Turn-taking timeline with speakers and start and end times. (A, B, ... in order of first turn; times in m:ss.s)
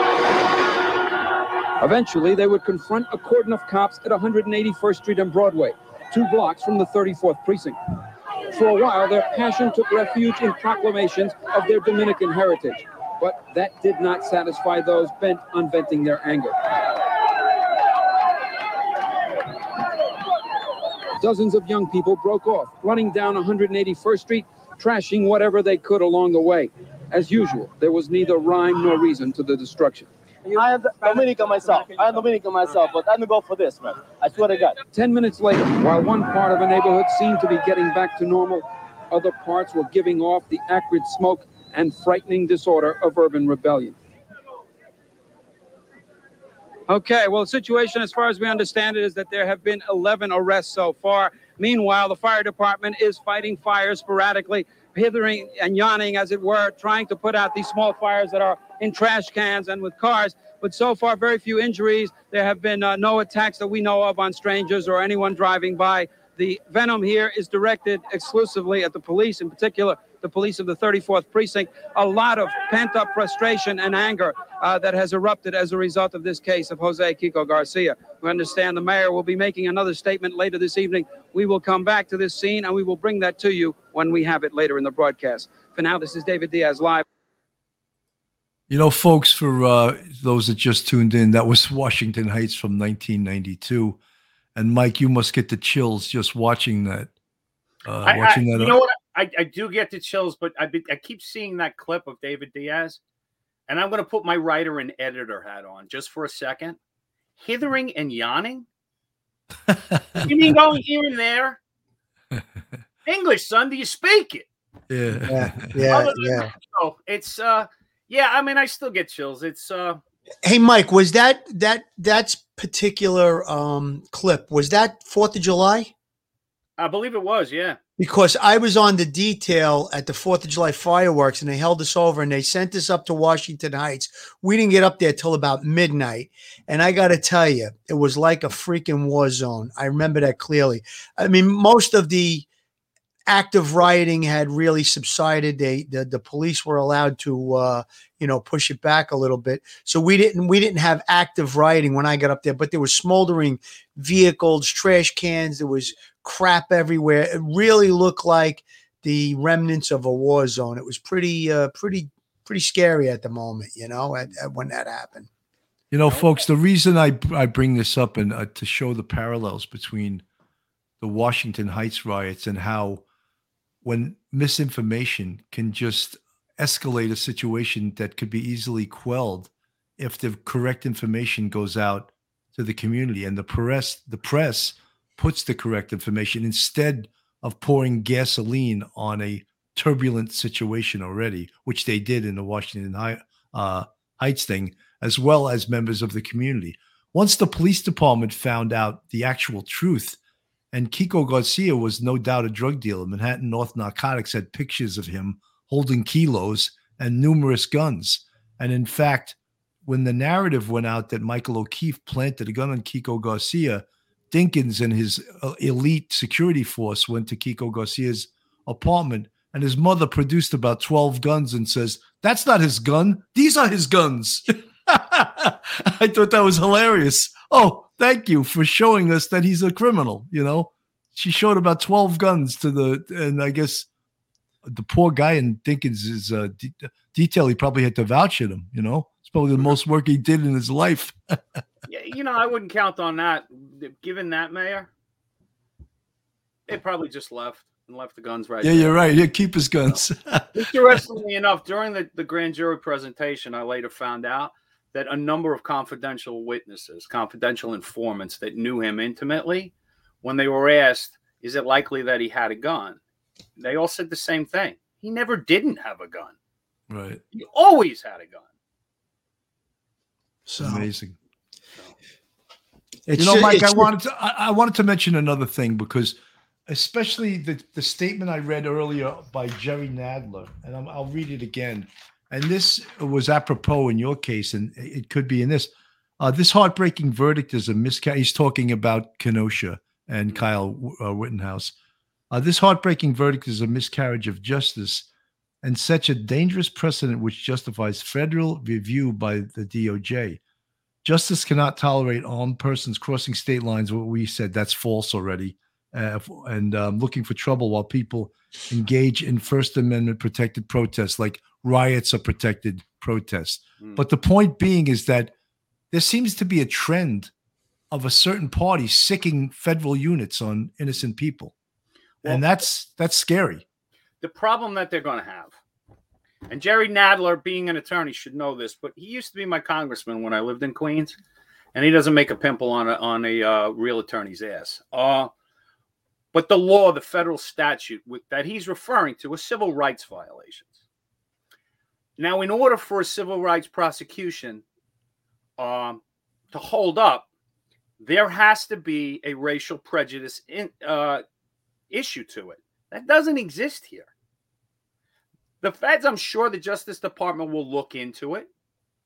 0:01.8-0:07.8 A
0:08.5-0:16.6 A
0:21.2-0:30.1 A
0:30.4-0:34.8 B
0:34.9-0:44.0 A
0:46.9-1:27.0 A
1:28.7-1:34.0 C
1:34.5-1:37.1 C
1:37.8-1:38.8 C
1:38.0-1:43.0 D
1:43.7-1:46.8 D
1:47.4-1:48.6 D
1:49.7-1:50.2 C
1:50.2-1:51.6 D
1:53.0-1:54.5 D
1:54.9-1:55.8 C
1:55.2-1:56.5 E
1:55.9-2:00.0 D
2:00.4-2:05.9 E
2:06.8-2:07.8 D
2:08.0-2:22.4 E
2:23.3-2:45.3 E
2:45.9-2:50.2 C
2:51.0-2:53.0 C
2:53.8-3:20.2 C
3:20.7-3:53.9 C
3:54.6-4:01.2 C
4:01.9-4:04.9 D
4:06.7-4:09.0 D
4:08.6-4:11.0 C
4:10.5-4:23.0 D
4:23.6-4:26.3 D
4:26.9-4:27.2 C
4:27.3-4:28.4 D
4:30.4-4:30.9 E
4:30.6-4:31.2 C
4:33.1-4:33.9 E
4:33.2-4:36.2 C
4:36.7-4:51.7 C
4:52.3-4:55.1 C
4:55.6-5:00.4 C
5:01.0-5:15.3 C
5:15.9-5:17.3 C
5:17.9-5:21.5 C
5:22.2-5:22.5 D
5:22.2-5:23.6 C
5:24.2-5:25.6 D
5:26.5-5:31.2 D
5:31.7-5:35.3 D
5:36.3-5:40.7 D
5:42.2-5:44.6 D
5:45.6-5:46.0 D
5:46.5-5:47.2 D
5:48.0-5:51.2 D
5:51.9-5:54.1 D
5:55.6-5:58.5 D